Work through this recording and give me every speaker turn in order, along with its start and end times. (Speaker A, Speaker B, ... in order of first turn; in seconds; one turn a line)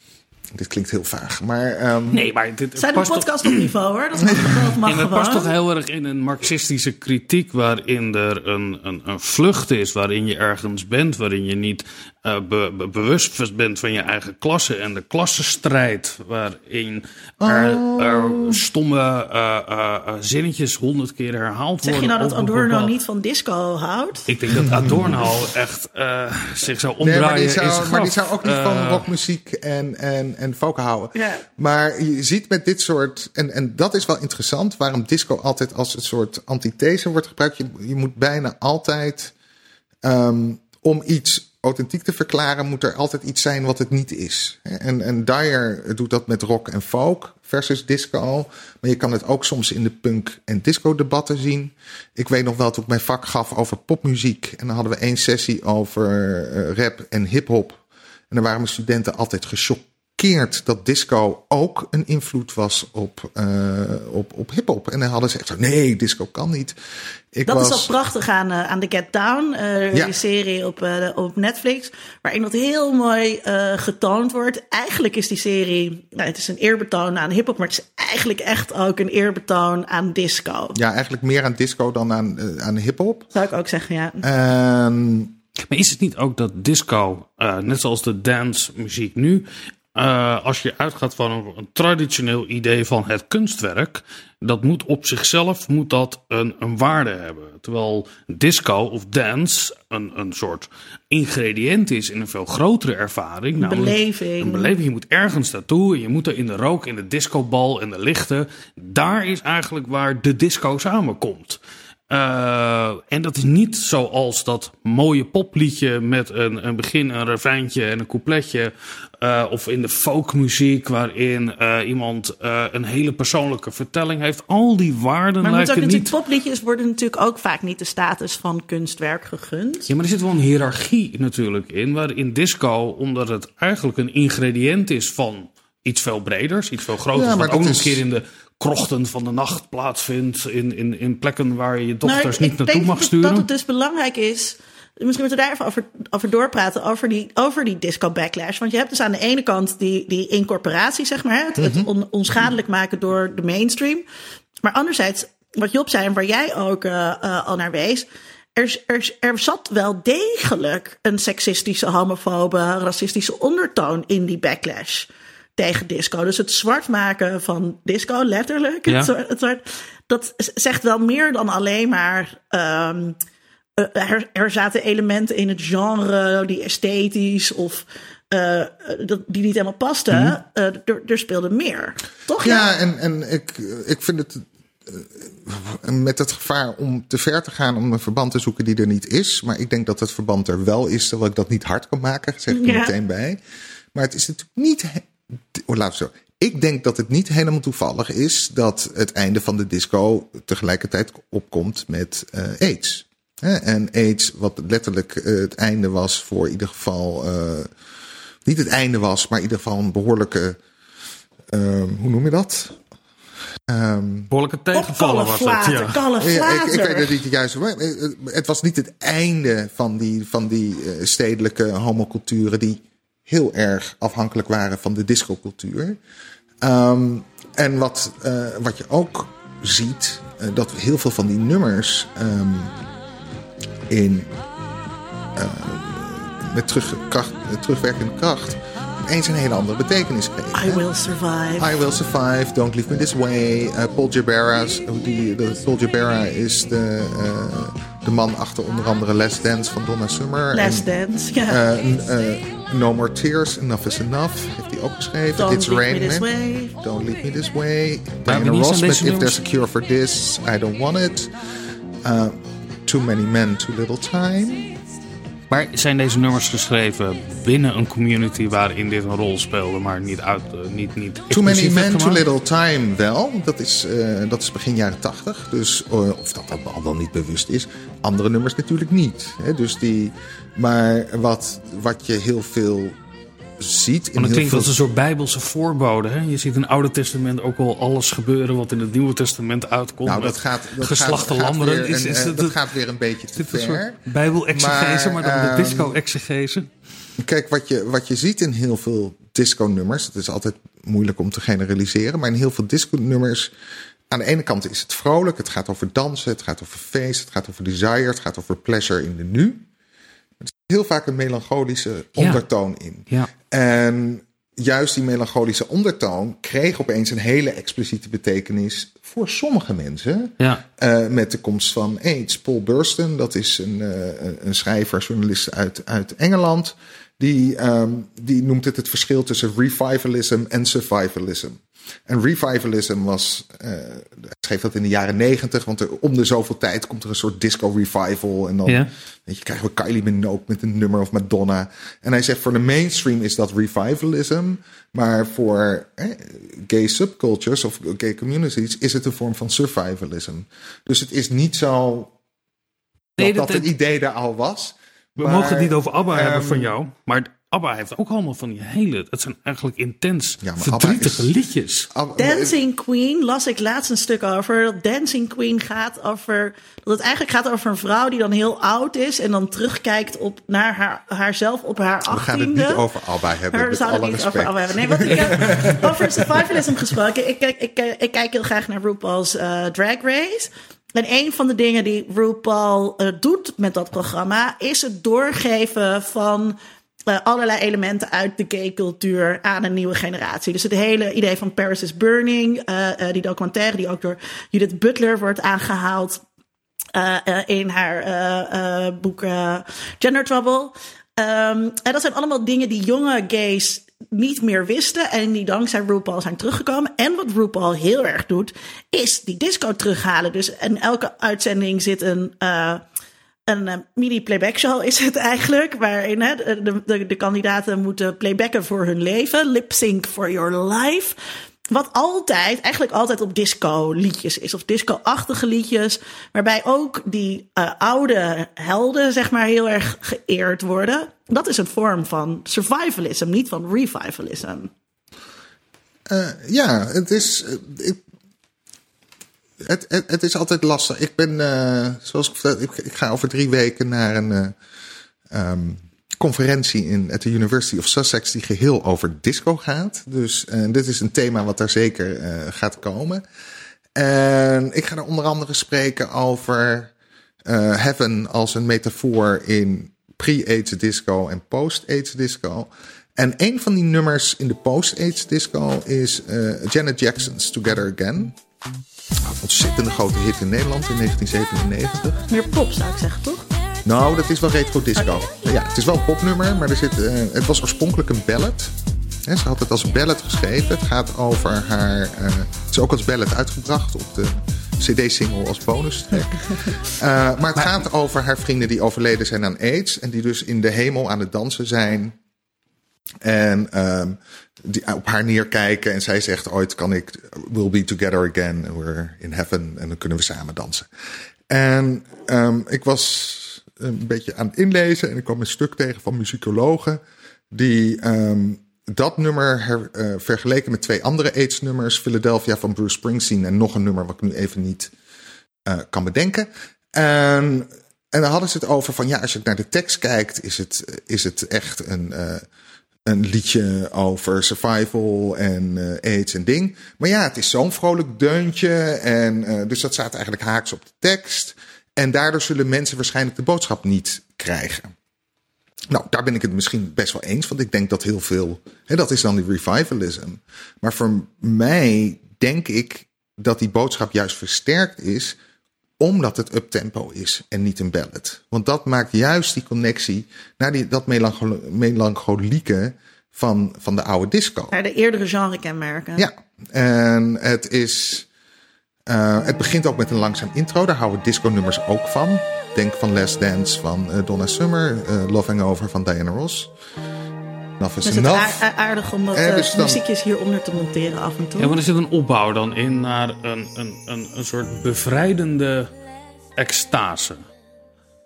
Speaker A: 0.5-2.2
Speaker B: 2.1-3.7
Speaker C: 2.8-5.5
Speaker A: 4.3-4.5
Speaker B: 4.4-22.9
Speaker A: 17.4-18.6
Speaker C: 21.8-24.3
Speaker B: 24.3-29.1
Speaker A: 24.5-25.2
Speaker A: 27.0-39.3
Speaker C: 31.1-31.4
Speaker A: 40.0-57.8
Speaker A: 58.3-66.8
Speaker A: 67.3-67.9
Speaker C: 67.5-80.8
Speaker A: 80.7-83.3
Speaker C: 83.3-84.3
Speaker A: 84.2-85.3
Speaker B: 85.7-111.6
Speaker C: 103.6-104.7
Speaker B: 112.1-126.1
Speaker C: 125.4-129.9
Speaker B: 129.9-143.4
Speaker A: 137.1-138.0
Speaker C: 142.0-154.0
Speaker A: 151.6-151.9
Speaker C: 154.6-173.2
Speaker C: 173.8-182.7
Speaker A: 182.4-193.4
Speaker C: 192.5-192.9
Speaker A: 193.9-207.7
Speaker A: 208.4-210.6
Speaker A: 211.5-212.8
Speaker A: 213.7-214.3
Speaker B: 214.3-216.0
Speaker C: 214.7-217.2
Speaker A: 216.2-226.0
Speaker A: 226.6-232.7
Speaker A: 233.9-234.3
Speaker A: 235.3-240.8
Speaker C: 240.5-241.7
Speaker A: 241.6-250.8
Speaker C: 250.5-251.6
Speaker A: 251.5-261.3
Speaker C: 255.4-256.8
Speaker B: 258.2-259.4
Speaker A: 262.0-264.7
Speaker B: 265.5-272.2
Speaker A: 271.3-283.0
Speaker A: 283.6-284.8
Speaker B: 284.2-292.6
Speaker A: 290.0-294.0
Speaker B: 293.4-296.7
Speaker A: 294.5-296.0
Speaker A: 297.2-303.5
Speaker A: 304.1-309.6
Speaker A: 310.4-352.1
Speaker B: 312.2-312.4
Speaker A: 353.2-356.7
Speaker B: 353.2-353.6
Speaker B: 355.2-361.9
Speaker A: 360.4-361.3
Speaker A: 361.9-362.6
Speaker C: 362.2-372.8
Speaker A: 372.1-376.6
Speaker C: 373.5-386.6
Speaker C: 387.1-396.2
Speaker C: 396.9-412.8
Speaker C: 413.5-421.1
Speaker C: 421.7-434.7
Speaker A: 436.1-438.0
Speaker A: 439.6-444.5
Speaker A: 445.3-453.2
Speaker A: 453.9-456.9
Speaker A: 457.4-468.3
Speaker A: 469.3-472.2
Speaker C: 472.3-473.4
Speaker A: 473.8-478.7
Speaker A: 479.2-492.1
Speaker A: 493.2-500.9
Speaker A: 501.5-507.0
Speaker A: 507.5-514.9
Speaker A: 515.6-522.5
Speaker A: 523.1-534.9
Speaker A: 535.9-545.3
Speaker A: 546.0-554.7
Speaker C: 554.7-556.3
Speaker A: 556.2-558.3
Speaker A: 559.1-566.7
Speaker A: 567.8-568.6
Speaker C: 568.0-571.8
Speaker A: 569.3-570.0
Speaker B: 571.6-575.9
Speaker B: 576.5-577.4